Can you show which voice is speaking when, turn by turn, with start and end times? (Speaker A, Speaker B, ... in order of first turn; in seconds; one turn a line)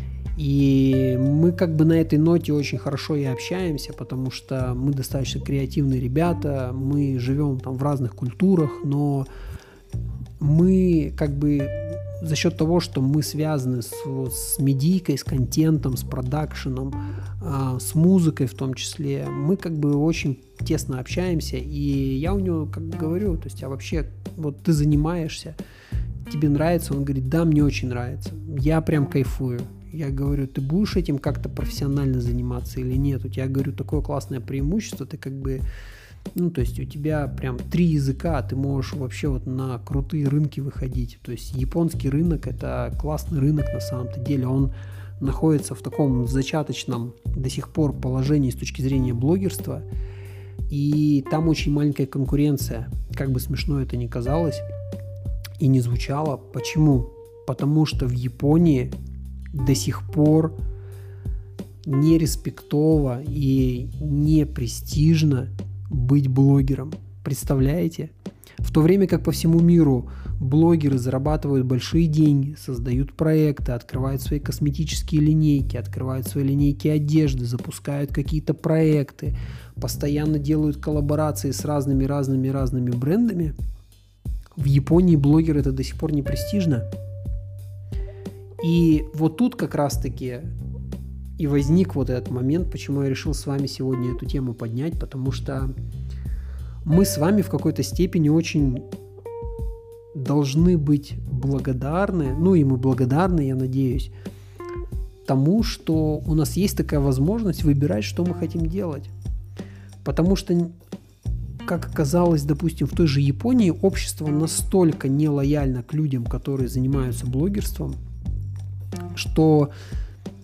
Speaker A: 0.3-9.3
Speaker A: 10.4-25.6
Speaker A: 26.3-35.6
Speaker A: 36.3-49.8
Speaker A: 50.7-54.6
Speaker A: 55.6-58.9
Speaker A: 59.5-60.5
Speaker A: 61.8-68.1
Speaker A: 68.6-83.5
Speaker A: 84.5-86.9
Speaker A: 88.6-90.5
Speaker A: 91.4-95.7
Speaker A: 96.8-98.8
Speaker A: 100.1-104.1
Speaker A: 105.2-109.1
Speaker A: 110.0-110.7
Speaker A: 111.6-118.0
Speaker A: 119.1-119.7